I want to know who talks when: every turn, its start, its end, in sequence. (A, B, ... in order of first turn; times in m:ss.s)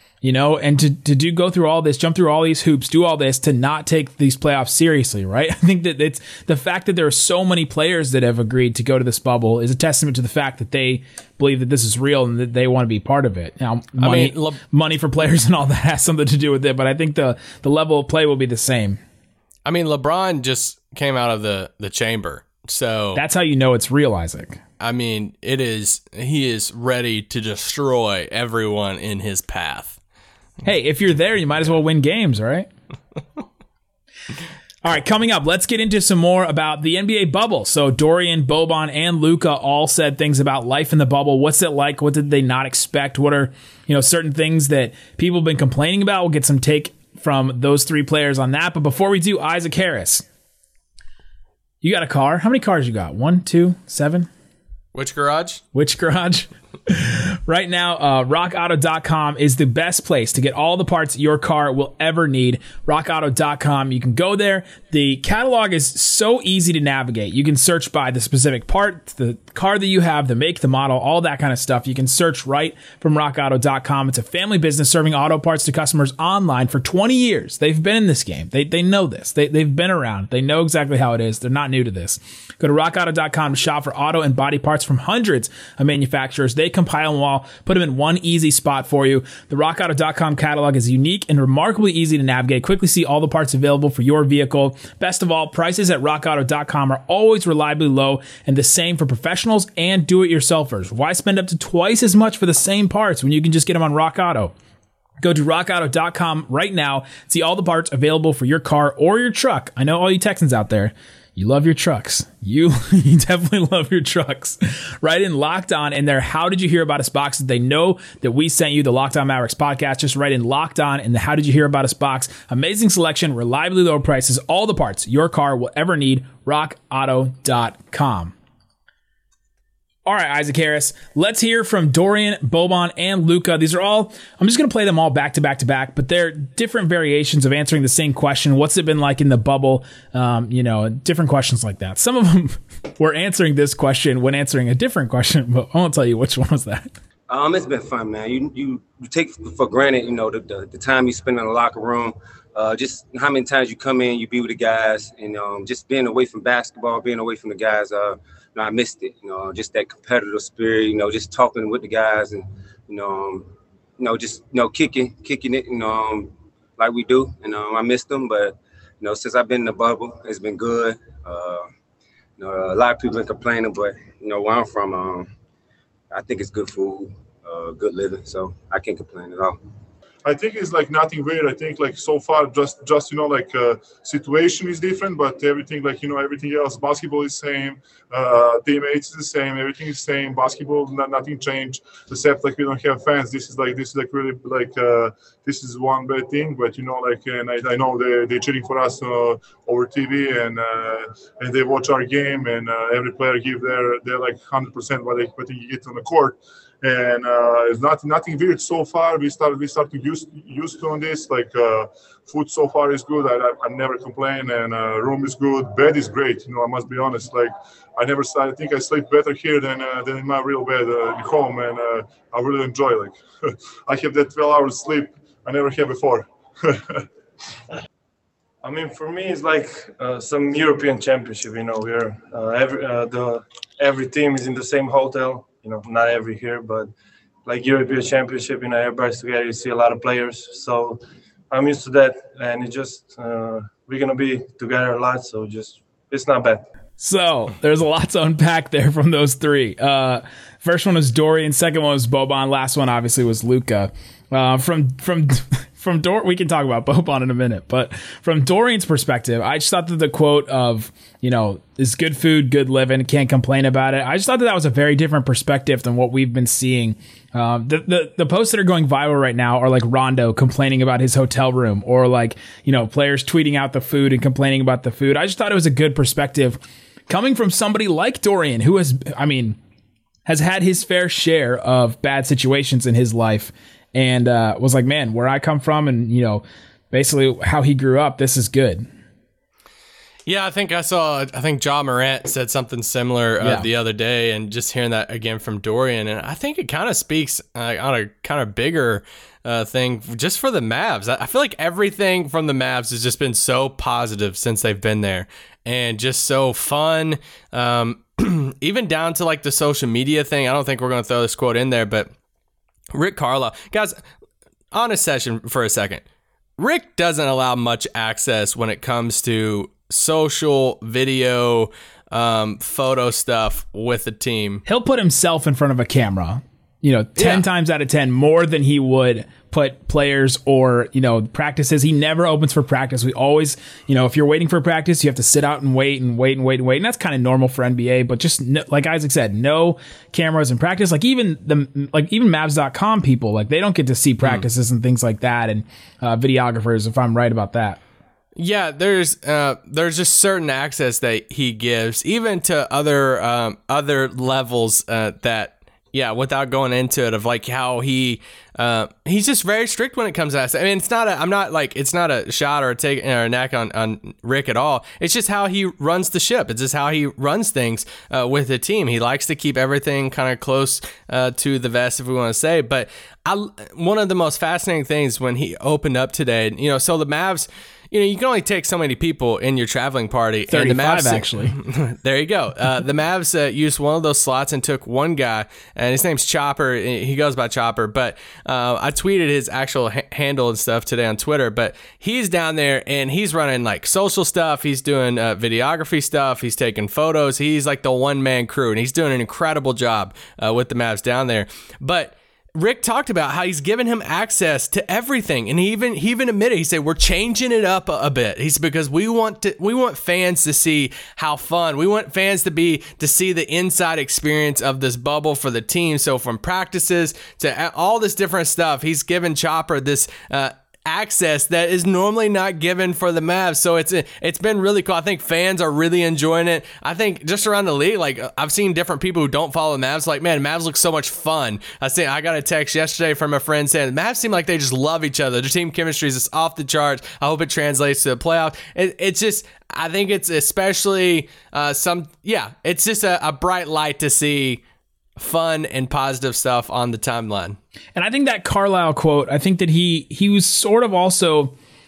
0:00.2-0:19.0 A
0:14.0-0:14.6 B
0:19.6-0:23.2 B
0:23.1-0:24.6 A
0:24.8-0:30.0 B
0:30.6-0:32.7 A
0:34.8-0:50.2 A
0:51.8-0:54.3 A
0:54.9-0:55.6 B
0:55.7-1:44.5 A
1:45.2-2:08.3 A
2:10.0-2:26.9 A
2:27.3-2:51.7 C
2:52.4-2:55.3 C
2:56.1-2:59.6 C
3:00.2-3:47.0 D
3:48.6-3:56.9 E
3:57.4-4:06.6 E
4:07.0-4:39.6 A
4:40.2-4:48.9 A
4:50.2-5:12.1 B
4:53.4-4:53.7 A
5:12.9-5:14.0 B
5:14.7-5:16.0 B
5:16.6-5:24.6 B
5:24.6-5:47.8 A
5:27.2-5:27.4 B
5:48.4-7:24.6 B
6:20.5-6:21.6 A
7:25.2-7:27.6 B
7:27.9-7:31.5 A